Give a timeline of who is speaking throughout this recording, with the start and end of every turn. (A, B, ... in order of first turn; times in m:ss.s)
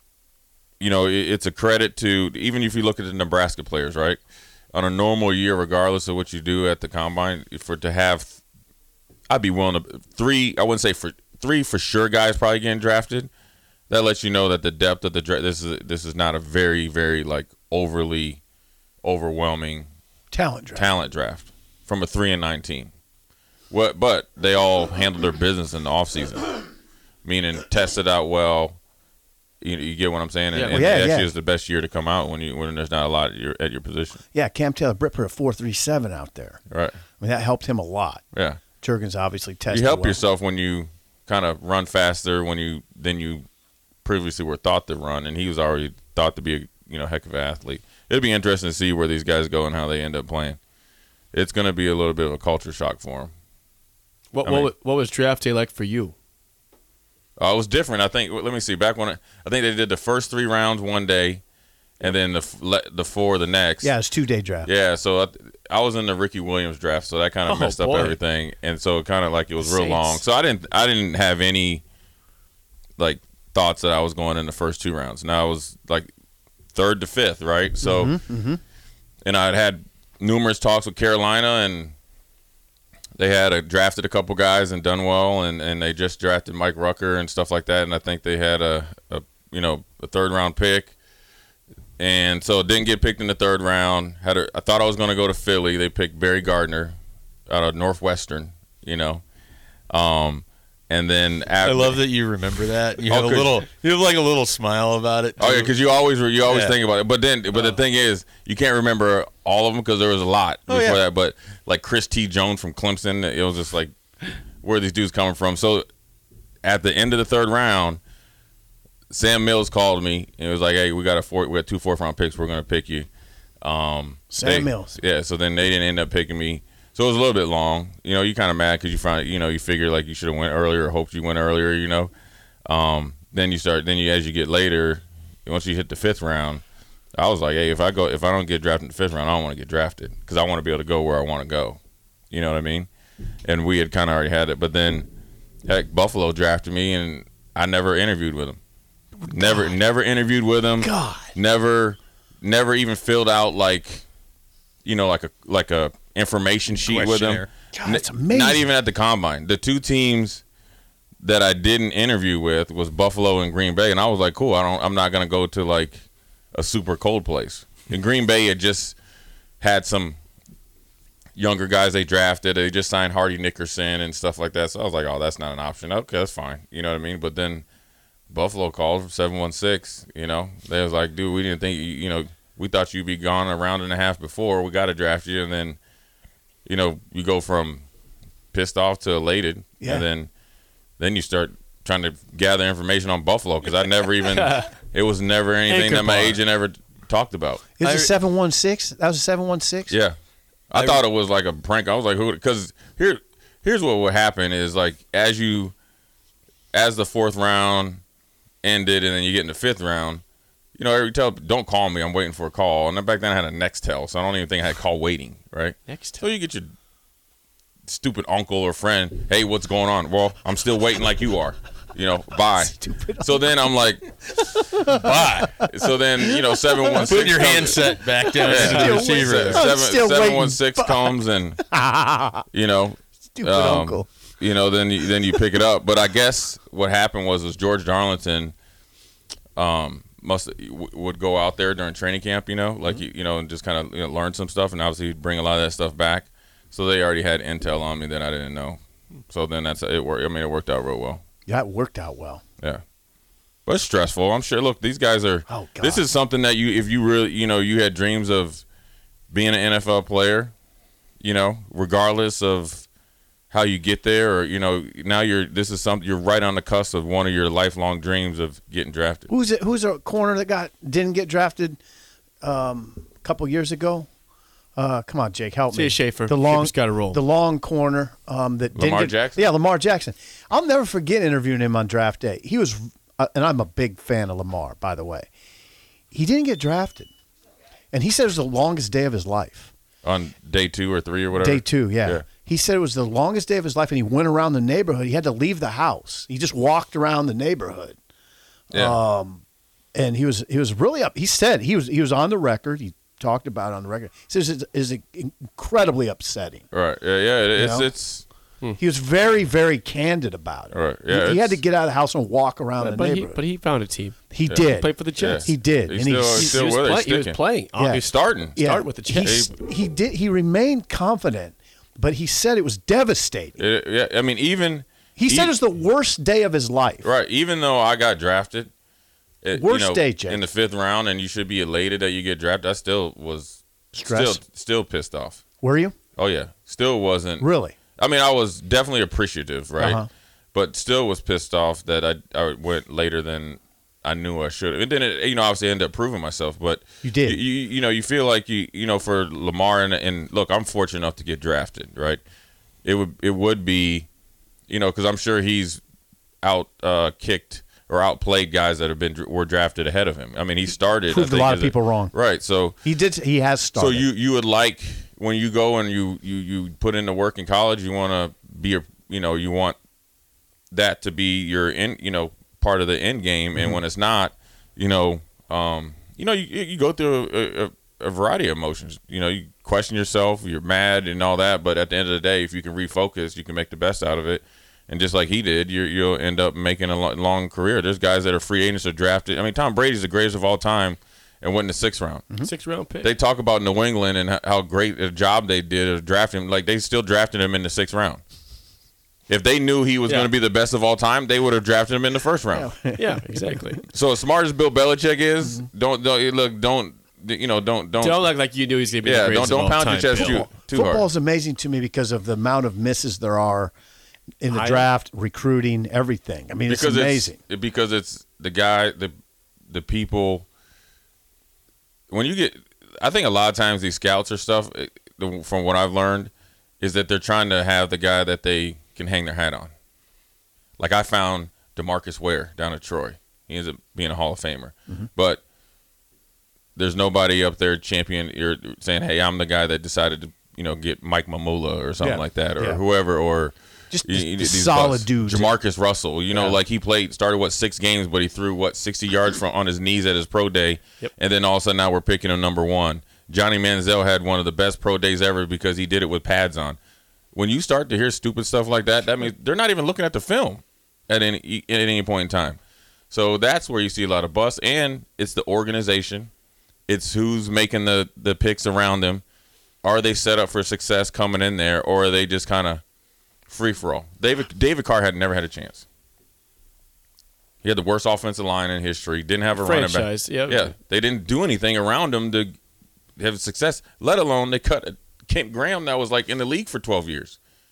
0:00.8-0:04.2 A
0:04.7-0:08.4 A
0:09.3-0:13.3 A
0:13.9-0:18.4 A
0:19.0-0:19.9 A
0:20.3-0:20.9 B
0:20.7-0:22.9 A
0:23.7-0:26.6 A
0:27.2-0:28.8 A
0:29.6-0:34.2 A
0:30.5-0:30.9 C
0:30.7-0:31.3 B
0:34.3-0:36.6 B
0:36.7-0:37.0 A
0:37.2-0:38.2 B
0:38.3-0:38.6 A
0:38.8-0:40.2 B
0:39.7-0:43.4 A
0:44.0-0:50.6 A
0:51.3-0:53.3 A
0:54.3-0:56.1 C
0:54.4-0:54.7 A
0:57.4-1:01.4 A
1:02.0-1:04.0 A
1:03.8-1:04.7 B
1:04.6-1:11.8 A
1:07.4-1:08.2 C
1:09.6-1:10.2 C
1:13.0-1:16.1 A
1:16.7-1:18.2 A
1:17.8-1:18.6 B
1:19.2-1:21.9 A
1:23.2-1:30.9 A
1:32.0-1:37.0 A
1:37.5-1:39.2 A
1:39.9-1:42.0 A
1:41.6-1:45.7 D
1:43.0-1:43.6 A
1:45.4-1:53.9 A
1:46.4-1:46.8 D
1:50.7-1:51.0 D
1:54.6-1:55.8 A
1:56.6-1:58.0 A
1:59.1-2:03.1 A
2:03.6-2:12.1 A
2:04.3-2:05.0 B
2:12.7-2:16.6 A
2:17.2-2:21.8 A
2:22.3-2:22.9 A
2:23.4-2:25.1 A
2:25.6-2:28.6 A
2:29.2-2:29.7 B
2:29.3-2:34.0 A
2:30.8-2:31.3 B
2:34.8-2:40.4 A
2:36.7-2:37.5 D
2:37.7-2:38.7 B
2:41.2-2:46.0 A
2:46.5-2:49.0 A
2:49.6-2:50.2 A
2:51.4-2:57.6 A
2:58.3-3:05.8 A
3:06.6-3:07.8 A
3:08.5-3:10.3 A
3:09.8-3:10.0 B
3:11.0-3:17.7 A
3:14.3-3:14.7 C
3:15.8-3:16.3 C
3:17.8-3:20.0 B
3:17.8-3:18.1 D
3:19.9-3:20.2 A
3:20.7-3:25.7 A
3:20.7-3:21.0 D
3:26.7-3:28.0 A
3:28.6-3:30.2 A
3:30.8-3:36.7 A
3:35.9-3:36.2 C
3:37.9-3:44.1 A
3:42.5-3:43.6 B
3:44.4-3:45.7 B
3:44.8-3:45.6 D
3:45.6-3:51.6 A
3:46.3-3:47.0 B
3:47.0-3:49.7 D
3:48.3-3:52.4 B
3:52.5-3:58.5 A
3:53.3-3:54.1 B
3:59.6-4:11.2 A
4:11.4-4:12.4 B
4:13.6-4:18.6 A
4:15.5-4:16.1 B
4:19.3-4:20.5 A
4:21.2-4:22.8 A
4:23.5-4:29.3 A
4:29.3-4:31.8 B
4:32.4-4:34.1 B
4:34.8-4:45.3 B
4:35.7-4:37.2 C
4:38.7-4:39.5 A
4:46.1-4:47.1 B
4:47.9-4:49.7 B
4:50.0-4:52.2 A
4:51.4-4:58.0 B
4:58.7-4:59.0 A
4:58.7-4:59.4 B
4:59.9-5:06.6 B
5:06.7-5:08.2 A
5:07.5-5:07.9 B
5:08.8-5:13.4 B
5:10.7-5:11.6 A
5:12.8-5:15.5 C
5:14.3-5:16.6 B
5:14.5-5:17.4 A
5:16.3-5:19.5 C
5:17.7-5:18.0 B
5:17.9-5:19.5 A
5:18.5-5:23.6 B
5:23.6-5:25.6 A
5:25.2-5:27.1 B
5:27.0-5:28.7 A
5:29.4-5:35.4 A
5:29.5-5:30.4 B
5:33.9-5:34.4 B
5:35.6-5:36.0 B
5:36.2-5:40.0 A
5:37.4-5:37.7 B
5:39.8-5:40.1 B
5:40.5-5:52.2 A
5:47.0-5:47.4 B
5:52.8-5:54.1 A
5:54.7-5:55.8 A
5:56.4-6:02.8 A
6:01.1-6:02.1 B
6:02.8-6:04.1 B
6:03.7-6:09.8 A
6:10.7-6:32.4 A
6:32.4-6:33.1 C
6:33.0-6:38.2 A
6:39.3-6:42.7 A
6:42.5-6:43.6 B
6:42.9-6:43.8 C
6:43.9-6:48.3 A
6:48.0-6:50.5 C
6:49.0-6:51.1 A
6:50.1-6:53.7 B
6:54.4-6:57.4 B
6:54.5-6:54.9 C
6:56.7-6:59.1 A
6:59.7-7:00.5 A
7:02.1-7:09.7 A
7:10.8-7:15.4 A
7:16.8-7:36.8 A
7:22.0-7:22.8 B
7:23.9-7:25.5 B
7:26.3-7:26.6 B
7:37.3-7:42.6 A
7:43.1-7:46.3 A
7:46.9-7:49.2 A
7:49.8-7:52.8 A
7:53.5-7:55.8 A
7:57.6-8:02.5 A
7:59.5-8:00.7 C
8:03.2-8:07.4 A